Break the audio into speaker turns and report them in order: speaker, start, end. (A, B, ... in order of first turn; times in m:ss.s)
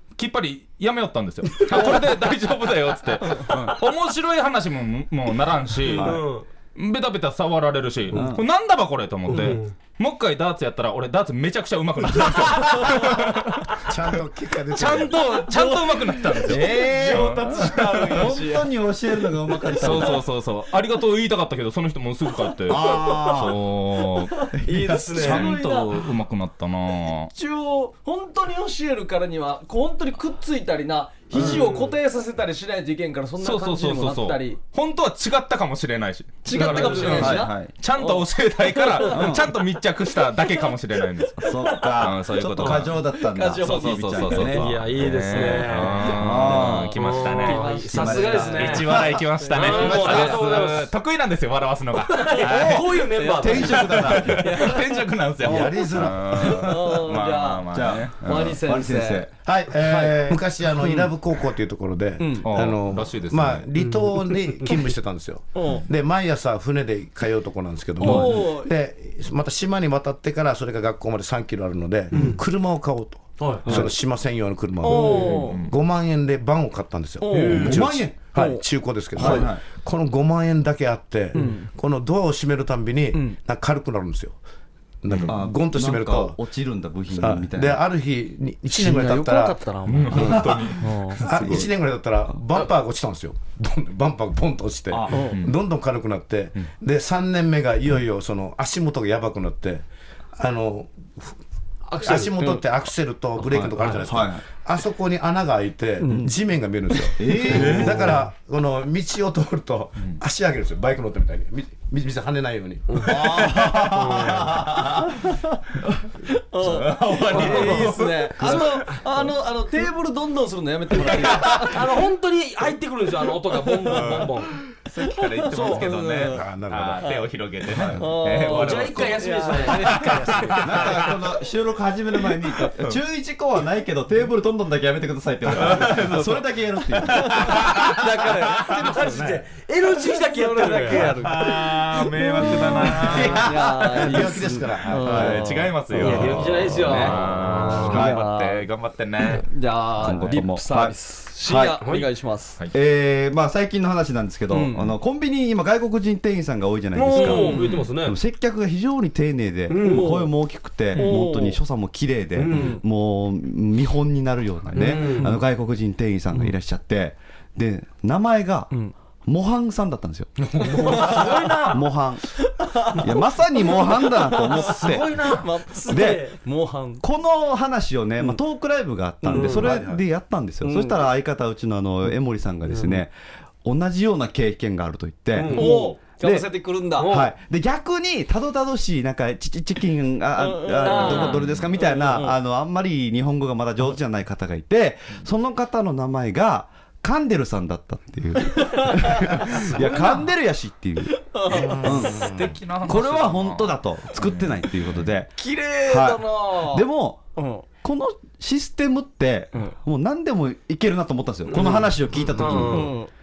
0:00.2-0:06.2 A
0:05.9-0:06.2 B
0:06.0-0:06.4 C
0:06.8-0:13.8 A
0:08.1-0:08.4 B
0:09.3-0:09.7 C
0:12.6-0:13.4 D
0:13.8-0:15.2 E
0:14.7-0:18.3 A
0:15.3-0:18.7 D
0:16.4-0:20.2 B
0:19.5-0:20.2 D
0:19.7-0:24.4 A
0:22.6-0:23.6 B
0:24.5-0:25.5 B
0:24.6-0:26.0 D
0:25.1-0:27.3 A
0:27.0-0:34.6 D
0:31.3-0:31.7 B
0:31.3-0:31.9 C
0:33.4-0:41.4 A
0:36.4-0:39.4 D
0:36.5-0:37.3 C
0:36.9-0:37.7 B
0:39.0-0:39.4 B
0:41.4-0:45.0 B
0:42.0-0:43.0 A
0:42.4-0:44.6 D
0:43.6-0:47.7 A
0:44.4-0:46.1 C
0:45.3-0:50.8 D
0:45.9-0:49.0 B
0:46.9-0:49.0 C
0:48.6-0:53.0 A
0:49.5-0:50.9 C
0:52.1-0:53.8 C
0:52.4-0:54.4 B
0:53.0-0:55.1 D
0:53.6-0:58.5 A
0:55.4-0:56.3 B
0:55.4-0:56.7 E
0:56.4-1:01.1 D
0:57.7-0:59.3 B
0:59.4-1:24.4 E
1:02.2-1:02.5 D
1:02.4-1:03.7 A
1:05.5-1:05.8 D
1:08.0-1:08.7 D
1:12.1-1:12.4 C
1:13.5-1:13.8 D
1:13.6-1:13.9 B
1:14.8-1:15.6 D
1:14.9-1:15.4 C
1:15.1-1:15.7 A
1:17.2-1:18.6 D
1:17.3-1:17.9 C
1:17.4-1:18.1 B
1:19.2-1:19.6 B
1:21.3-1:21.7 D
1:25.0-1:26.4 E
1:25.1-1:25.4 A
1:25.2-1:27.8 B
1:27.1-1:29.6 E
1:28.7-1:31.6 D
1:29.8-1:31.6 A
1:30.1-1:41.4 E
1:34.9-1:35.1 B
1:35.1-1:35.4 D
1:35.3-1:35.5 A
1:41.9-1:42.4 C
1:42.0-1:53.8 E
1:43.4-1:44.4 B
1:43.6-1:44.0 C
1:46.0-1:46.3 B
1:47.1-1:48.2 B
1:47.4-1:47.8 D
1:47.5-1:48.0 A
1:52.9-1:54.7 C
1:53.0-1:55.4 B
1:56.2-2:01.8 D
1:56.6-1:58.7 A
1:57.3-1:59.0 C
2:01.2-2:04.5 C
2:03.5-2:04.3 D
2:03.9-2:10.2 A
2:05.0-2:06.4 D
2:06.3-2:07.2 E
2:07.7-2:08.1 B
2:07.9-2:11.0 D
2:08.4-2:10.9 C
2:10.6-2:17.8 B
2:15.5-2:16.3 A
2:15.6-2:16.1 D
2:17.0-2:18.1 A
2:17.0-2:26.3 D
2:18.0-2:21.2 C
2:19.0-2:19.4 E
2:20.8-2:21.2 E
2:21.1-2:24.2 A
2:23.0-2:23.6 B
2:23.1-2:25.4 E
2:25.0-2:25.5 B
2:25.0-2:29.4 A
2:26.0-2:28.0 C
2:26.0-2:27.0 B
2:26.8-2:28.6 D
2:27.8-2:28.2 B
2:29.2-2:32.6 D
2:30.0-2:31.8 B
2:31.8-2:32.1 C
2:32.7-2:48.7 B
2:34.5-2:34.9 D
2:36.9-2:38.2 C
2:37.2-2:37.8 D
2:37.4-2:37.9 A
2:39.7-2:40.3 C
2:39.8-2:40.3 D
2:40.9-2:41.6 D
2:41.0-2:41.4 C
2:42.4-2:42.8 C
2:42.5-2:42.8 D
2:44.7-2:45.4 D
2:44.8-2:45.4 C
2:49.2-2:52.3 B
2:50.5-2:51.1 E
2:50.7-2:51.6 D
2:50.7-2:51.8 C
2:52.6-2:57.0 D
2:52.9-2:55.3 B
2:54.5-2:56.2 C
2:55.9-2:56.3 B
2:57.0-3:25.3 B
2:59.2-2:59.9 D
2:59.3-2:59.7 C
2:59.5-3:00.0 E
3:00.6-3:01.0 D
3:05.4-3:06.0 C
3:05.4-3:07.2 D
3:07.0-3:07.3 C
3:10.4-3:12.3 D
3:10.7-3:11.4 C
3:18.4-3:20.3 D
3:21.1-3:22.3 D
3:21.5-3:22.6 E
3:21.8-3:25.0 A
3:25.4-3:27.6 D
3:25.9-3:27.2 B
3:27.8-3:32.9 B
3:31.5-3:32.9 C
3:31.5-3:31.9 D
3:32.4-3:33.1 D